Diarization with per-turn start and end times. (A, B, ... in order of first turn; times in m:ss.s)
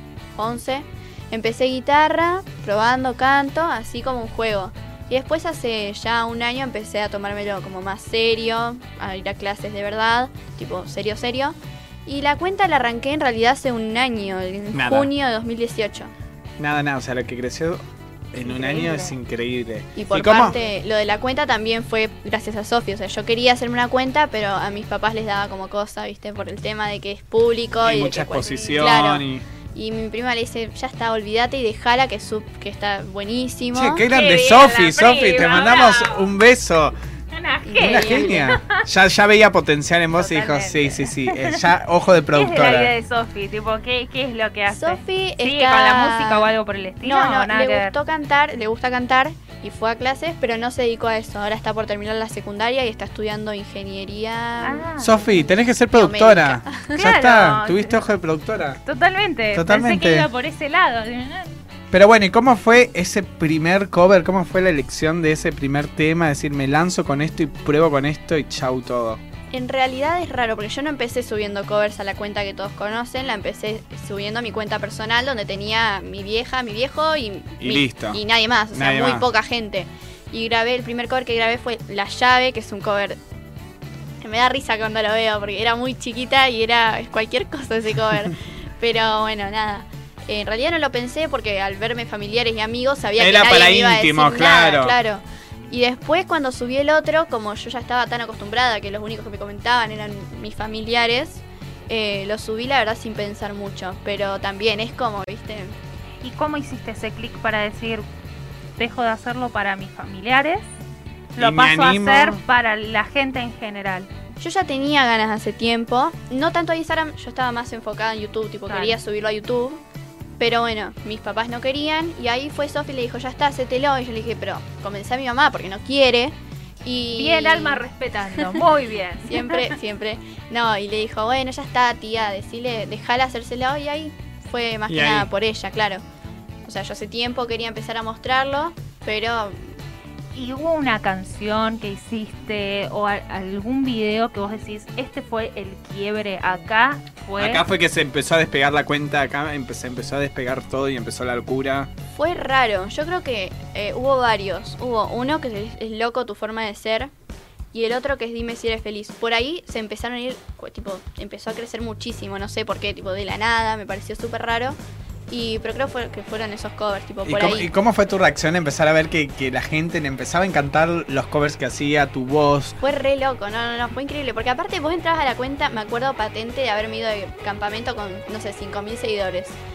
0:00.4-0:16.1 A
0:14.7-0:15.1 B
0:16.6-0:20.6 B
0:18.4-0:19.2 C
0:20.0-0:34.0 A
0:27.8-0:29.4 B
0:28.4-0:29.0 C
0:33.7-0:37.0 B
0:34.1-0:36.3 C
0:37.3-0:38.8 C
0:37.7-0:38.4 A
0:37.8-0:42.9 B
0:40.2-0:41.6 C
0:42.3-0:47.9 C
0:44.7-0:46.5 A
0:47.0-0:54.9 A
0:54.6-0:55.2 C
0:55.0-0:58.8 B
0:55.9-0:57.0 A
0:57.0-0:58.0 C
0:58.8-1:01.5 C
0:59.5-1:00.3 B
1:01.9-1:09.2 B
1:09.5-1:23.2 A
1:17.6-1:18.2 B
1:18.7-1:19.3 B
1:24.2-1:45.7 A
1:33.2-1:35.0 B
1:46.2-1:48.0 C
1:48.8-1:50.7 C
1:51.4-1:54.1 C
1:51.4-1:52.4 B
1:54.4-1:59.8 A
1:58.7-1:59.0 C
2:00.4-2:07.8 A
2:07.2-2:09.7 C
2:09.3-2:16.0 A
2:14.9-2:15.3 B
2:16.6-2:19.6 A
2:20.4-2:27.6 C
2:27.4-2:31.9 B
2:32.2-2:37.1 A
2:37.7-2:44.8 A
2:45.3-2:47.7 A
2:47.2-2:52.8 B
2:52.8-2:59.6 A